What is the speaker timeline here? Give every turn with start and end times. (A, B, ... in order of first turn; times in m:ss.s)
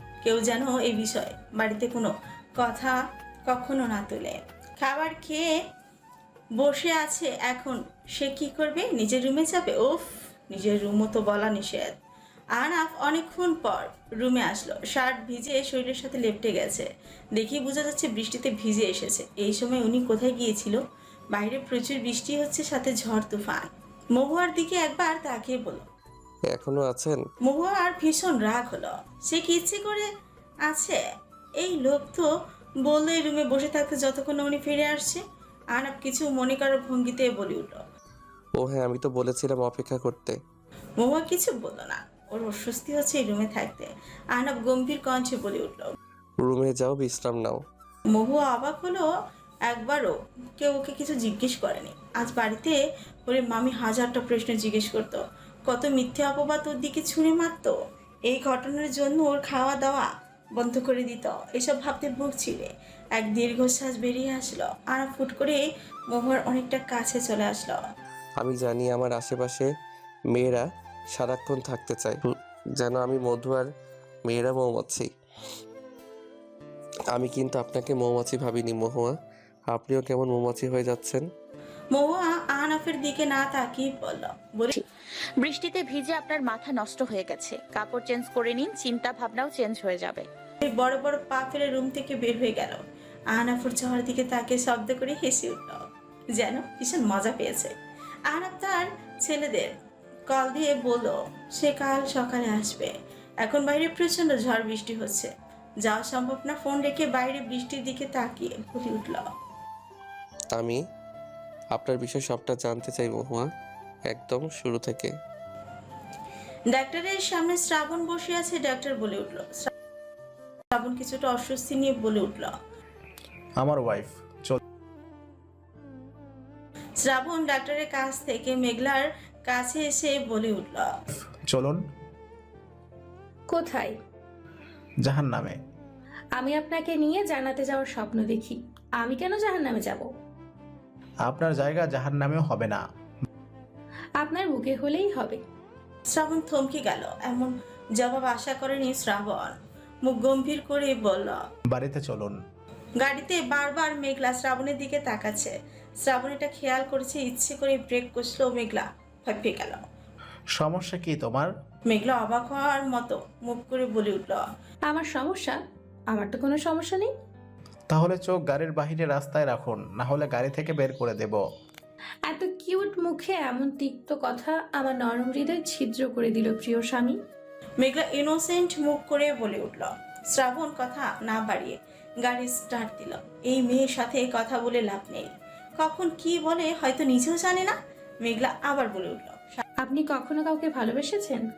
0:00.2-0:05.5 A
0:06.6-0:12.0 A
0:12.6-0:20.8 A
0:21.3-0:25.9 A
0:26.5-0:27.2 B
0:27.4-0:30.1 A
0:30.7-0:31.0 A
0:31.6-0:32.3 A
0:32.9-0:35.2 A
0:35.8-0:37.8 A
0:38.6-0:40.4 B
0:41.0-0:45.9 A
0:46.4-0:47.6 B
0:48.1-0:49.1 A
0:49.7-0:57.8 A
0:58.3-1:07.8 A
1:08.4-1:09.7 B
1:10.3-1:13.7 B
1:14.2-1:15.1 B
1:17.1-1:19.2 B
1:19.7-1:21.2 B
1:21.9-1:24.7 A
1:25.4-1:30.3 C
1:30.6-1:32.8 A
1:33.3-1:35.8 A
1:36.4-1:37.7 A
1:38.3-1:39.7 A
1:40.3-1:45.3 A
1:45.8-1:49.2 A
1:50.5-1:50.8 B
1:51.7-1:53.5 B
1:54.1-1:55.1 B
1:56.7-1:59.7 A
2:00.7-2:02.5 A
2:03.6-2:04.6 D
2:07.0-2:10.9 A
2:11.5-2:11.8 D
2:13.5-2:14.0 E
2:15.0-2:15.6 D
2:16.4-2:20.1 E
2:21.2-2:22.8 D
2:24.2-2:25.4 E
2:26.1-2:31.4 A
2:31.7-2:32.4 D
2:33.0-2:39.8 A
2:40.6-2:41.5 D
2:41.9-2:44.5 A
2:44.9-2:47.1 E
2:47.9-2:51.4 D
2:52.3-2:57.2 E
2:57.8-3:09.6 A
3:09.8-3:11.5 E